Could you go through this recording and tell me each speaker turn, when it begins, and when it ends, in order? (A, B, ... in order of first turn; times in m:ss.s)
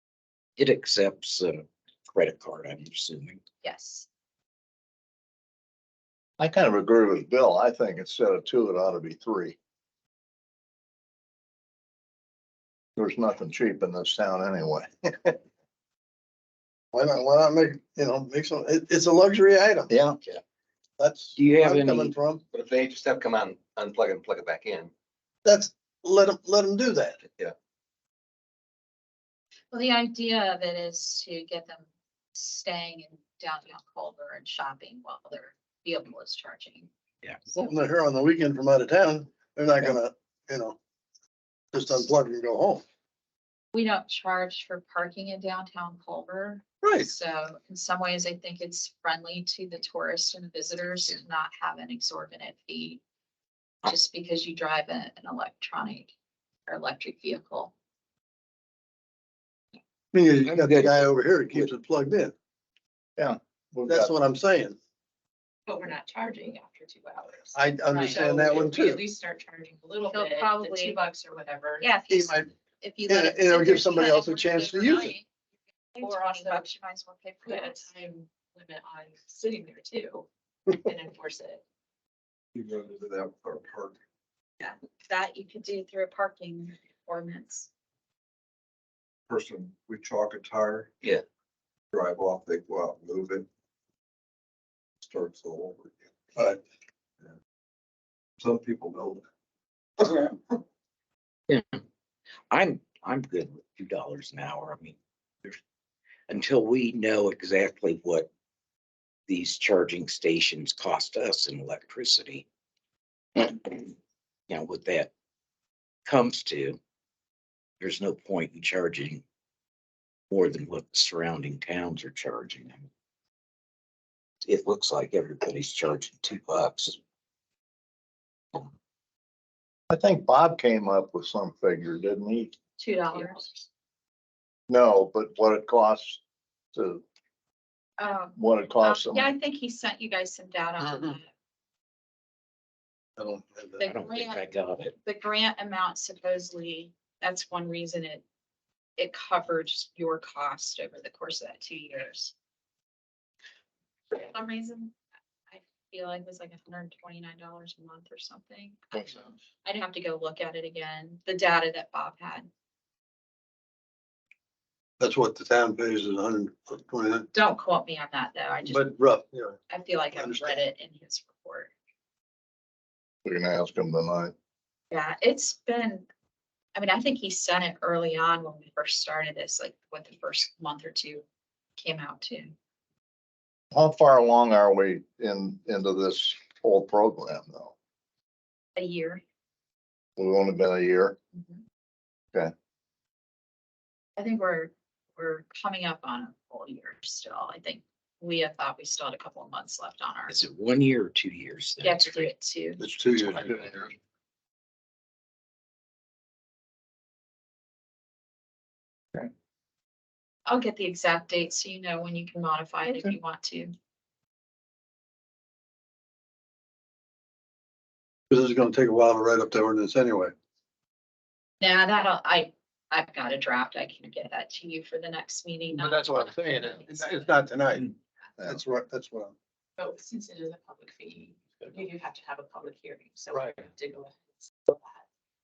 0:00.6-0:03.4 A
0:03.6-0:04.1 B
0:06.4-0:09.6 C
0:13.0-0:15.4 C
0:16.9-0:19.9 D
0:19.9-0:20.2 C
0:21.0-0:22.4 D
0:21.4-0:22.2 A
0:22.5-0:24.9 E
0:25.4-0:27.2 D
0:29.7-0:36.9 B
0:37.5-0:40.8 D
0:41.7-0:42.8 D
0:43.7-0:53.0 B
0:46.8-0:47.1 D
0:53.9-0:56.1 B
0:56.7-0:57.7 B
1:00.1-1:02.3 D
1:00.4-1:01.1 A
1:03.2-1:04.1 C
1:03.9-1:04.8 D
1:05.7-1:11.9 F
1:07.5-1:09.0 D
1:10.1-1:11.0 B
1:11.8-1:15.3 B
1:12.1-1:12.5 D
1:13.1-1:15.2 D
1:16.0-1:17.9 B
1:16.0-1:16.7 F
1:17.4-1:21.6 F
1:22.6-1:24.0 E
1:24.6-1:27.7 B
1:29.3-1:31.0 G
1:29.3-1:31.2 E
1:31.9-1:33.4 E
1:32.3-1:33.3 G
1:35.0-1:36.0 G
1:35.2-1:35.8 E
1:38.4-1:39.2 E
1:42.5-1:45.0 A
1:46.3-1:48.3 A
1:49.3-1:52.5 A
1:53.4-1:53.9 A
1:54.5-1:55.1 A
1:56.0-1:56.8 A
1:57.8-1:59.2 A
2:00.3-2:02.9 A
2:04.4-2:07.0 A
2:09.9-2:12.6 C
2:12.8-2:13.5 B
2:13.1-2:13.6 F
2:14.7-2:16.2 C
2:16.7-2:17.0 C
2:18.0-2:21.3 B
2:18.4-2:19.3 C
2:23.2-2:23.9 D
2:23.8-2:24.4 B
2:23.8-2:24.9 A
2:25.0-2:28.2 B
2:29.0-2:32.3 B
2:34.1-2:35.0 B
2:35.5-2:42.5 B
2:39.0-2:39.2 C
2:45.0-2:47.3 D
2:47.3-2:48.9 B
2:48.6-2:49.6 D
2:49.7-2:51.7 B
2:50.1-2:50.6 D
2:53.2-2:54.3 C
2:54.9-2:56.1 B
2:56.8-3:01.2 B
3:01.8-3:02.6 B
3:03.7-3:07.7 C
3:08.8-3:09.2 B
3:10.2-3:11.2 C
3:11.3-3:11.6 B
3:14.2-3:20.4 B
3:20.3-3:22.3 A
3:21.8-3:22.8 B
3:22.8-3:23.8 D
3:23.3-3:23.8 A
3:23.4-3:23.8 C
3:30.5-3:33.7 B
3:32.9-3:33.2 C
3:38.3-3:40.3 D
3:41.6-3:47.3 B
3:45.7-3:49.4 D
3:49.8-3:55.1 F
3:53.3-3:53.6 D